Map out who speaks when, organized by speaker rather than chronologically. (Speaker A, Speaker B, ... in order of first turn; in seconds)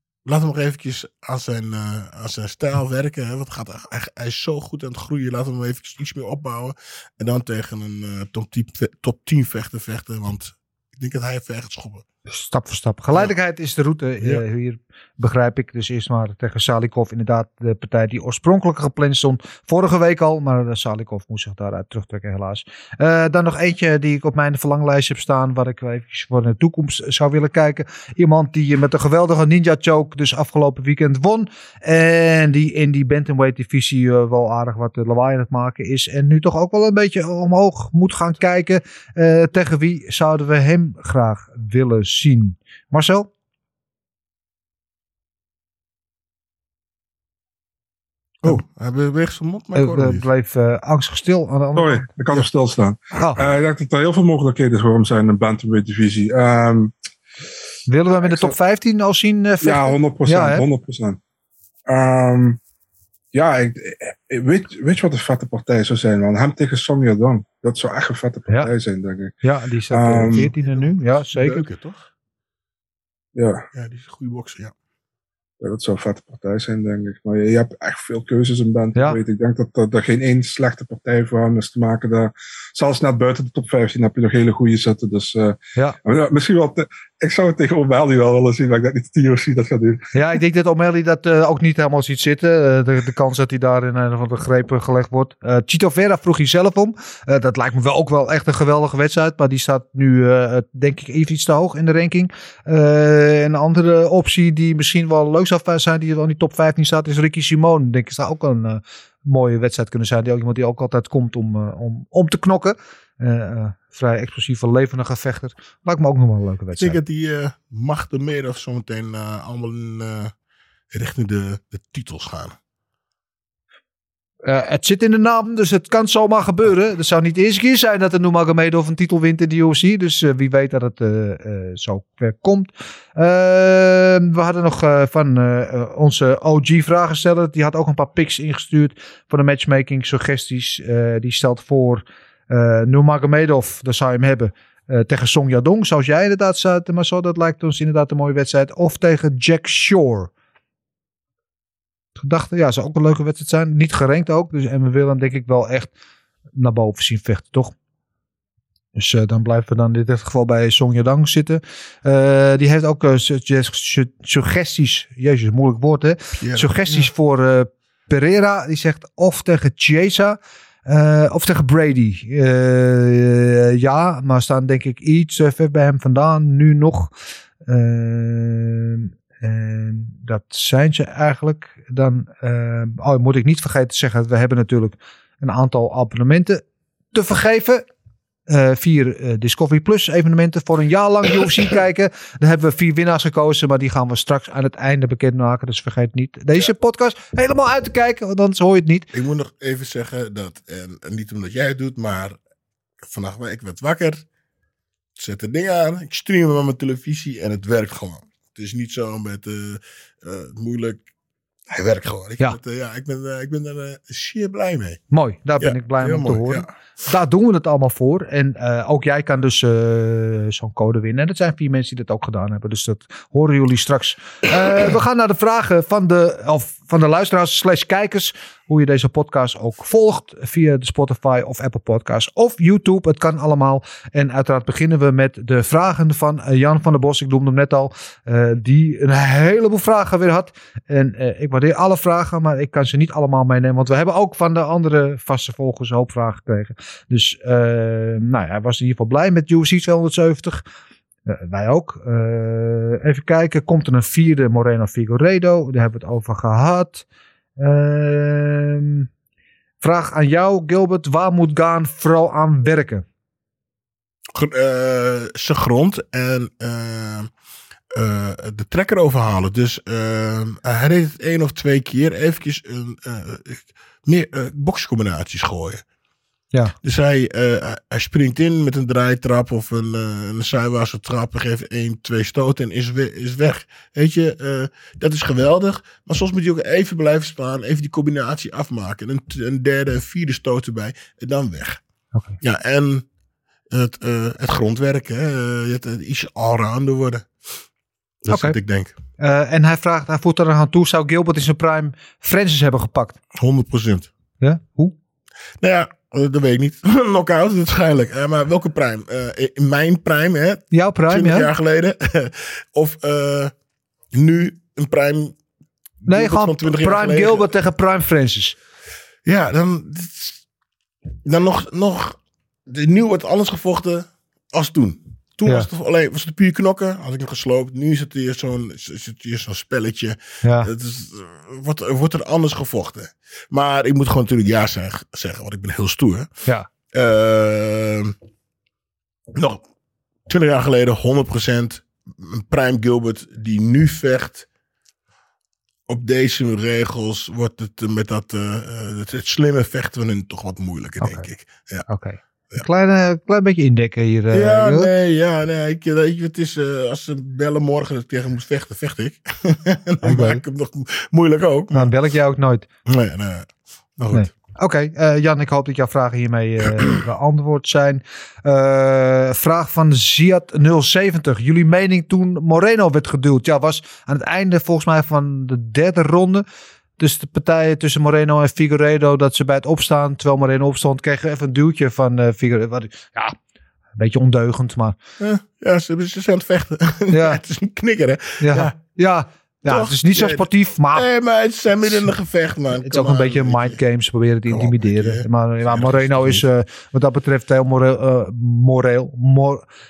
Speaker A: 0.3-12.0, 48.5-50.3, 70.3-72.0, 73.7-74.7, 116.8-120.3, 120.9-122.5, 166.4-167.1, 199.1-202.4, 203.0-204.2, 205.2-211.1, 211.7-215.0, 215.6-216.7, 264.4-267.3, 267.9-275.8, 276.8-291.8, 292.4-293.1, 293.7-297.3, 298.2-298.9, 303.4-304.1, 305.6-313.5, 314.1-315.4, 316.0-317.5, 319.2-320.4, 321.2-336.3, 336.9-338.1, 339.4-339.6, 340.3-344.5, 345.9-351.9, 354.3-361.9, 362.9-364.3, 385.2-388.8, 389.7-393.8, 394.5-396.4
Speaker B: 12.3-43.3, 49.8-52.5, 57.9-60.6, 69.4-71.6, 90.1-117.0, 124.5-150.3, 152.2-155.9, 156.6-157.7, 158.9-177.1, 177.7-187.8, 188.5-199.1, 215.1-250.6, 251.3-257.1, 257.6-259.1, 259.8-263.1, 292.1-292.4, 298.3-298.6, 299.2-303.2, 304.4-304.9, 310.7-311.5, 316.1-318.6, 330.4-330.7, 351.0-351.3, 351.9-354.9, 360.0-360.4, 361.7-362.7, 364.1-376.4, 377.0-383.4, 384.0-385.0, 387.1-387.4, 388.4-391.1, 392.8-399.6
Speaker C: 51.8-56.9, 59.6-61.2, 61.9-62.6, 63.3-69.3, 69.9-70.5, 73.4-73.7, 75.6-90.1